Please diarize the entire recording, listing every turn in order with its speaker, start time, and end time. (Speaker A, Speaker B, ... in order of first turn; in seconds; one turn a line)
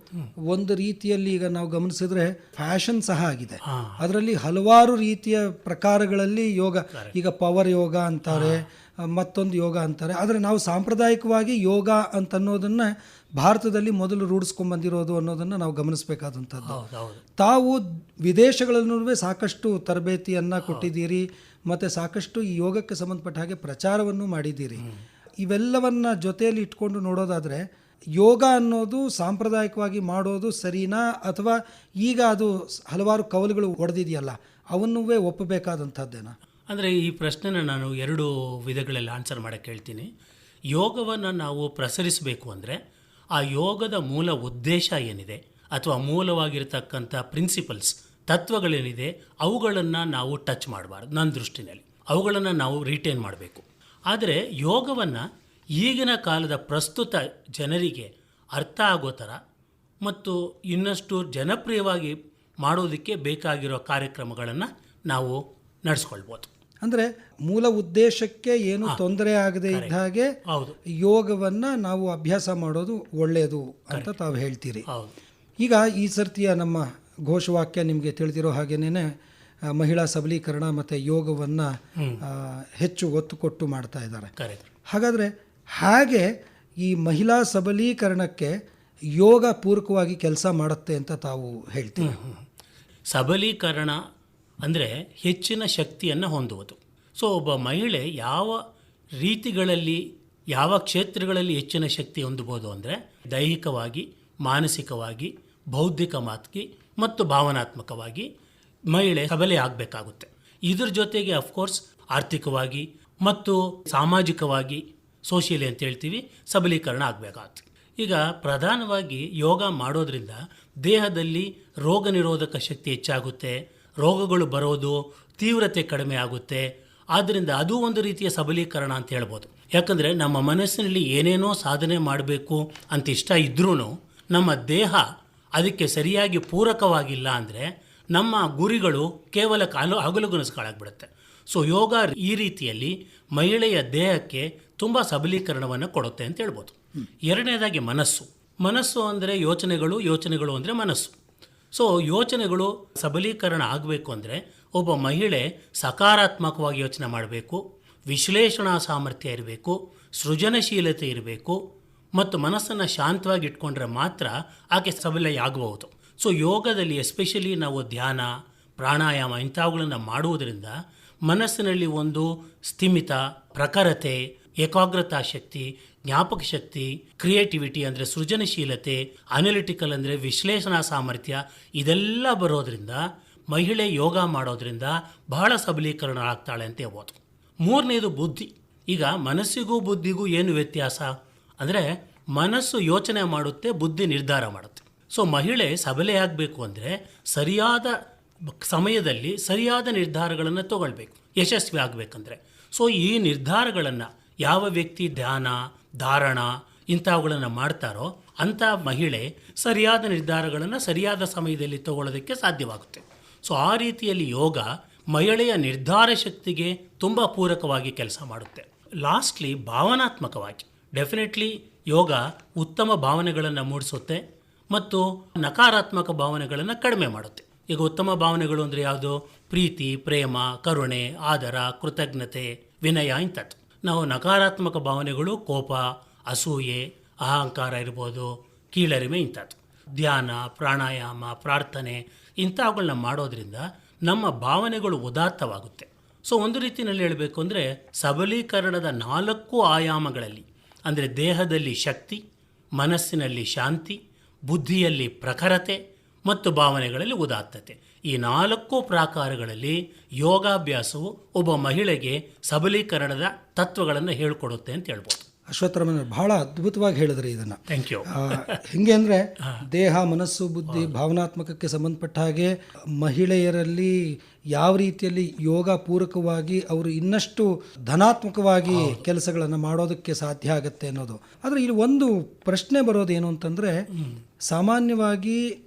Speaker A: 0.5-16.8
Speaker B: 3.7-4.0
Speaker B: 8.3-8.6
Speaker B: 16.7-17.2
Speaker A: 17.4-24.9
Speaker A: 25.4-27.6
Speaker A: 28.2-36.3
Speaker B: 36.7-40.1
Speaker B: 40.7-42.8
Speaker B: 43.4-55.2
Speaker B: 55.8-59.4
Speaker B: 60.0-66.5
Speaker A: 66.8-70.3
Speaker B: 70.5-70.8
Speaker A: 71.0-74.8
Speaker A: 75.6-79.1
Speaker A: 79.7-81.7
Speaker A: 82.2-84.3
Speaker B: 84.4-84.7
Speaker A: 84.9-86.3
Speaker A: 86.8-88.5
Speaker A: 89.2-92.2
Speaker B: 92.0-92.4
Speaker B: 93.1-94.0
Speaker B: 94.6-98.6
Speaker B: 99.2-100.0
Speaker B: 100.5-108.3
Speaker B: 108.9-135.0
Speaker B: 135.6-151.1
Speaker B: 151.7-161.6
Speaker B: 162.2-170.8
Speaker B: 171.3-197.9
Speaker B: 198.5-252.2
Speaker B: 252.8-265.2
Speaker A: 265.5-283.7
Speaker B: 267.7-268.6
Speaker B: 270.7-271.0
Speaker B: 278.7-279.0
Speaker A: 284.5-285.4